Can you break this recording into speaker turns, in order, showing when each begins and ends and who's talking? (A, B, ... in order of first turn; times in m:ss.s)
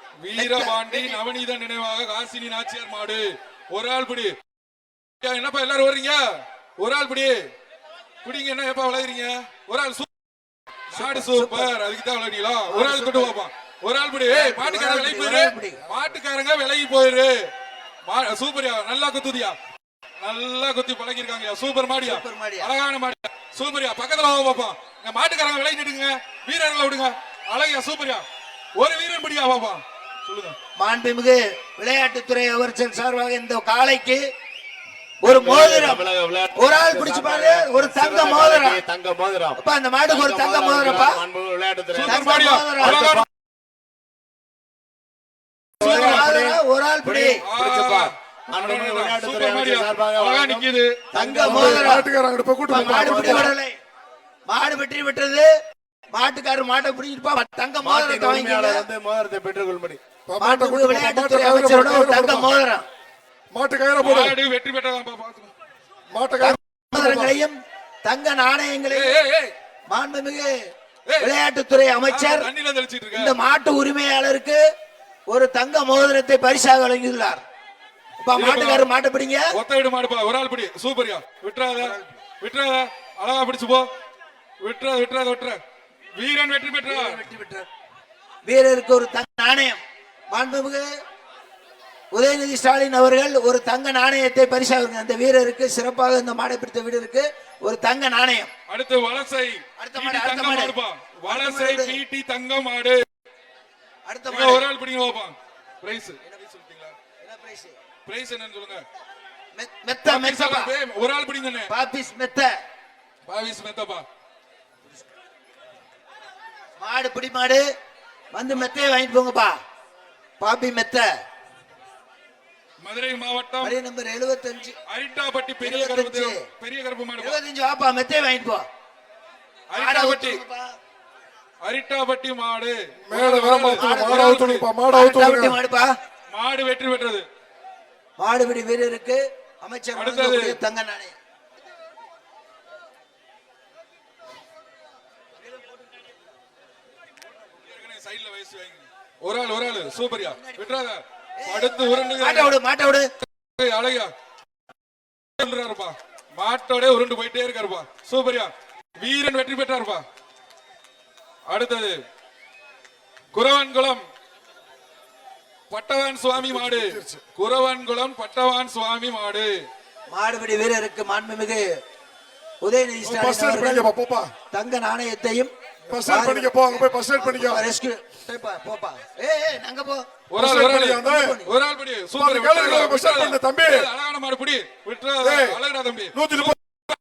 0:00.2-0:04.4 A
0:00.4-0:01.2 B
0:05.2-0:07.4 A
0:08.2-0:10.1 A
0:10.9-0:17.4 A
0:10.9-0:11.7 B
0:12.7-0:13.4 B
0:14.3-0:15.8 B
0:18.0-0:19.6 A
0:20.2-0:28.2 A
0:22.0-0:22.7 B
0:28.8-0:30.6 A
0:30.8-0:34.2 B
0:35.2-0:38.8 B
0:35.2-0:42.3 C
0:39.6-0:41.2 B
0:41.9-0:43.2 A
0:42.0-0:43.1 B
0:42.8-0:43.2 C
0:45.8-0:46.3 A
0:45.8-0:52.0 C
0:45.8-0:47.4 B
0:45.8-0:46.2 D
0:47.4-0:51.0 A
0:51.1-0:52.1 B
0:51.4-0:53.5 D
0:52.7-0:53.5 C
0:52.7-0:53.7 B
0:54.5-0:55.5 B
0:56.1-0:58.9 B
0:57.8-1:00.0 C
1:00.3-1:02.5 D
1:00.4-1:02.8 B
1:03.5-1:04.4 D
1:04.0-1:05.5 A
1:06.1-1:07.4 D
1:06.4-1:09.2 B
1:08.9-1:09.5 A
1:09.9-1:10.5 B
1:11.1-1:11.3 A
1:11.2-1:12.5 B
1:12.1-1:13.4 A
1:13.1-1:14.6 B
1:15.3-1:17.4 B
1:18.2-1:19.5 B
1:18.3-1:18.9 A
1:19.5-1:23.9 A
1:24.6-1:25.6 A
1:26.2-1:27.1 A
1:26.9-1:27.7 B
1:28.4-1:29.8 B
1:30.3-1:30.9 B
1:32.1-1:38.5 B
1:38.7-1:43.0 A
1:39.8-1:40.8 B
1:41.3-1:42.0 B
1:44.1-1:44.7 B
1:44.3-1:47.0 A
1:47.2-1:47.8 B
1:48.1-1:48.8 A
1:49.6-1:50.7 B
1:50.0-1:51.7 A
1:51.7-1:52.5 B
1:53.3-1:54.0 A
1:56.8-1:57.6 B
1:58.3-1:59.6 B
2:00.4-2:01.1 B
2:02.8-2:03.8 A
2:03.6-2:04.8 B
2:04.9-2:07.4 A
2:05.6-2:06.4 B
2:07.2-2:08.6 B
2:09.7-2:10.4 A
2:09.7-2:10.7 B
2:11.6-2:14.7 A
2:13.0-2:15.6 D
2:13.8-2:15.9 B
2:16.3-2:17.3 A
2:18.2-2:21.1 B
2:19.9-2:20.6 A
2:27.5-2:32.6 A
2:30.2-2:30.8 B
2:31.4-2:33.1 B
2:33.6-2:34.1 A
2:35.4-2:40.0 A
2:41.5-2:42.0 A
2:43.3-2:44.1 A
2:45.7-2:49.5 A
2:46.4-2:47.2 D
2:50.1-2:51.7 B
2:52.6-2:53.9 B
2:53.0-2:54.3 D
2:54.5-3:00.0 B
2:55.9-2:57.7 D
3:00.3-3:06.6 A
3:00.4-3:01.4 D
3:01.0-3:01.5 B
3:02.2-3:03.9 D
3:05.2-3:05.6 D
3:06.1-3:06.6 D